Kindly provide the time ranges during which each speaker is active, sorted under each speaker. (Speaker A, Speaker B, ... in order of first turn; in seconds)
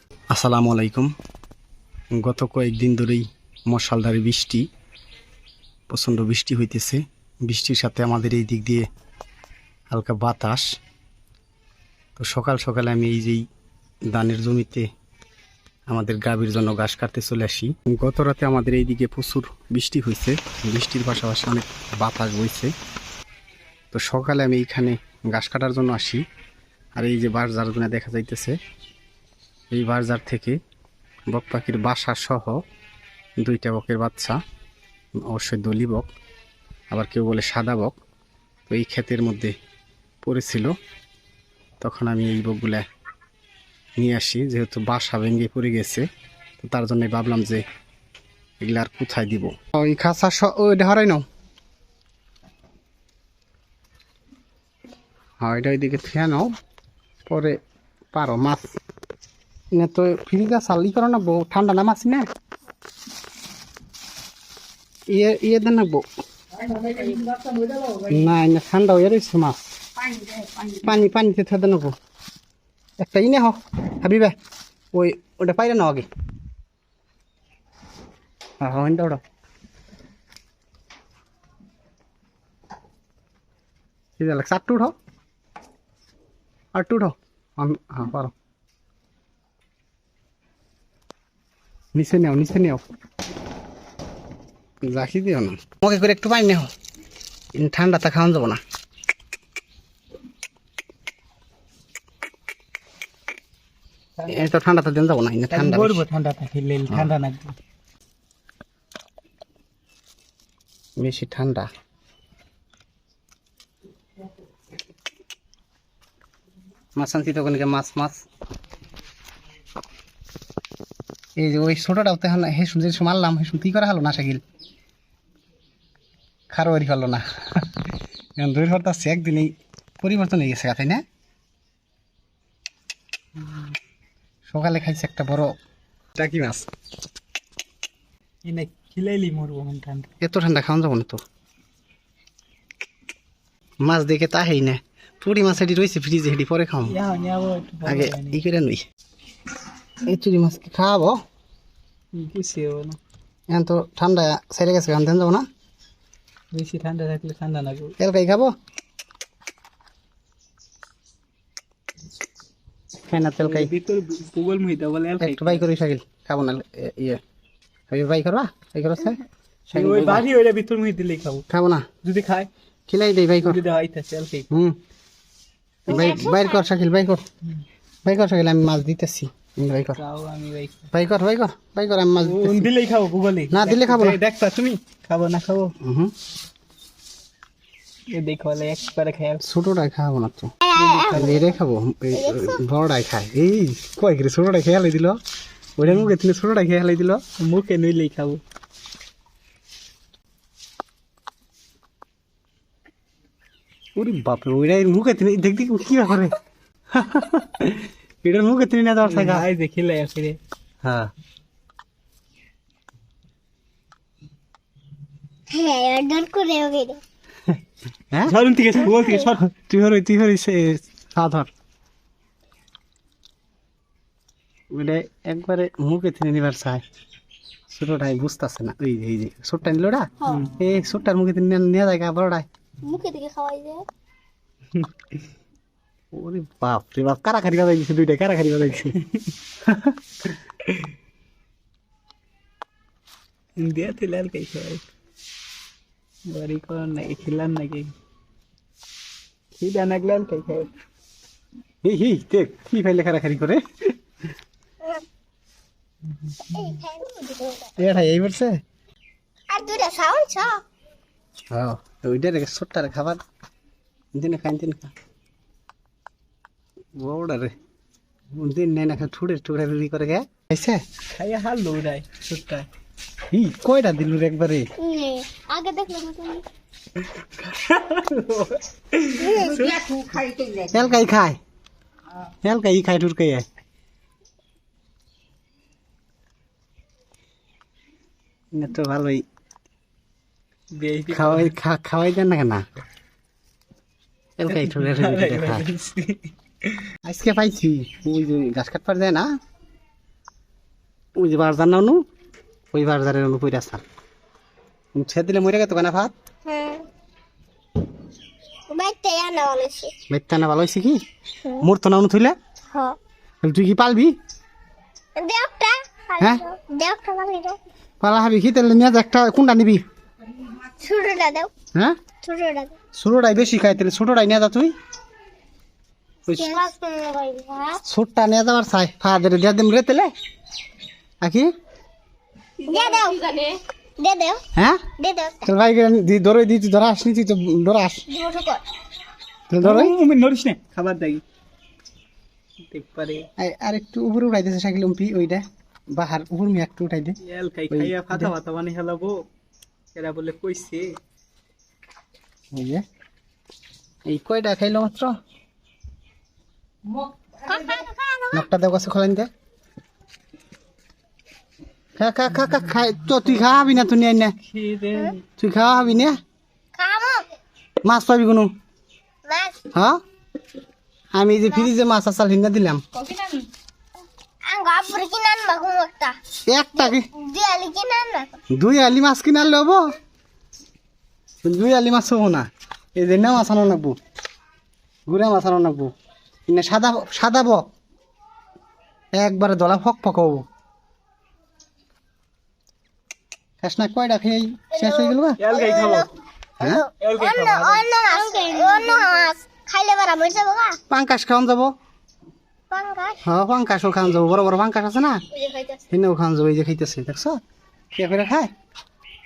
Speaker A: 0.3-1.1, 2.2-4.6, 5.9-8.9, 9.9-10.7, 12.2-13.4, 14.1-14.8, 15.9-22.7, 23.9-26.2, 26.9-28.6, 29.7-30.6, 31.3-32.6, 33.4-34.4, 35.2-36.1, 36.9-38.0, 38.7-39.5, 40.2-40.8, 41.8-42.8, 44.0-46.0, 46.6-47.6, 48.6-51.2, 55.4-56.5, 57.2-57.6, 58.1-58.6, 59.7-62.2, 65.1-66.1, 67.9-69.6, 70.7-71.9, 73.0-74.3, 74.9-76.1, 78.6-79.2, 84.2-84.9, 86.7-88.3, 91.9-92.8, 94.8-96.7, 97.5-98.6, 104.2-106.0, 111.0-111.7, 117.0-118.2, 121.4-124.4, 126.5-127.7, 128.4-131.0, 134.5-135.5, 136.2-136.7, 140.2-141.2, 143.8-147.0, 147.8-148.8, 150.0-151.2, 153.5-155.4, 158.0-158.5, 163.1-163.7, 165.2-167.2, 167.9-170.3, 171.5-171.9, 172.9-173.6, 174.5-174.8, 175.9-177.2, 178.0-180.0, 180.9-182.7, 183.5-184.2, 185.8-186.1, 189.4-190.5, 191.1-195.2, 195.8-197.2, 204.0-206.3, 206.9-209.5, 210.8-211.1, 219.1-221.5, 224.7-226.8, 227.7-232.5, 236.1-238.9, 239.6-239.9, 251.8-253.6, 257.8-258.6, 261.5-263.2, 264.1-264.9, 267.0-267.5, 268.3-270.8, 273.3-274.7, 280.7-281.4, 282.4-283.4, 288.5-289.2, 291.1-292.6, 294.4-295.7, 297.0-299.3, 301.2-302.0, 302.7-303.8, 304.9-306.1, 310.1-311.0, 311.6-312.4, 313.4-314.1, 318.0-319.8, 322.9-324.7, 326.3-326.7, 327.9-330.1, 331.2-331.5, 334.6-334.8, 335.4-338.0, 339.5-339.9, 343.4-345.4, 345.9-347.2, 347.7-348.3, 352.5-352.8, 354.1-355.1, 358.3-359.3, 362.0-364.3, 365.4-366.2, 367.8-368.5, 371.1-372.8, 376.5-377.1, 378.5-379.8, 381.4-384.0, 385.1-385.9, 386.5-387.6, 389.1-390.4, 393.6-395.4, 396.6-396.9, 400.9-401.7, 403.2-405.2, 405.9-407.4, 407.9-408.5
Speaker B: 105.5-107.5, 138.4-140.1, 146.9-148.4, 152.1-153.0, 156.5-157.9, 163.4-165.6, 169.7-171.4, 172.0-172.5, 173.4-174.5, 180.0-180.9, 182.2-185.7, 188.1-189.4, 190.7-191.6, 197.4-198.4, 209.0-210.4, 218.3-219.3, 243.6-244.8, 246.3-247.9, 249.6-250.7, 271.1-272.7, 277.5-280.3, 290.8-291.5, 294.5-296.9, 339.6-341.2, 342.7-343.2, 347.2-349.2, 349.9-350.9, 364.5-365.2, 395.4-396.1, 397.0-399.3
Speaker C: 175.9-176.6, 190.6-191.3, 192.1-192.6, 215.5-217.0, 232.8-233.8, 256.4-257.8, 259.5-260.6, 274.8-276.4, 279.2-279.8, 306.4-306.9, 308.7-309.9, 312.7-313.0, 315.1-317.6, 320.8-321.5, 322.2-322.7, 326.3-327.8, 332.6-334.4, 335.0-335.5, 338.1-338.6, 357.4-358.4, 366.8-367.3, 369.2-369.6, 374.4-376.2, 376.8-378.4, 394.8-396.1, 396.6-400.8, 402.7-403.2, 405.3-405.8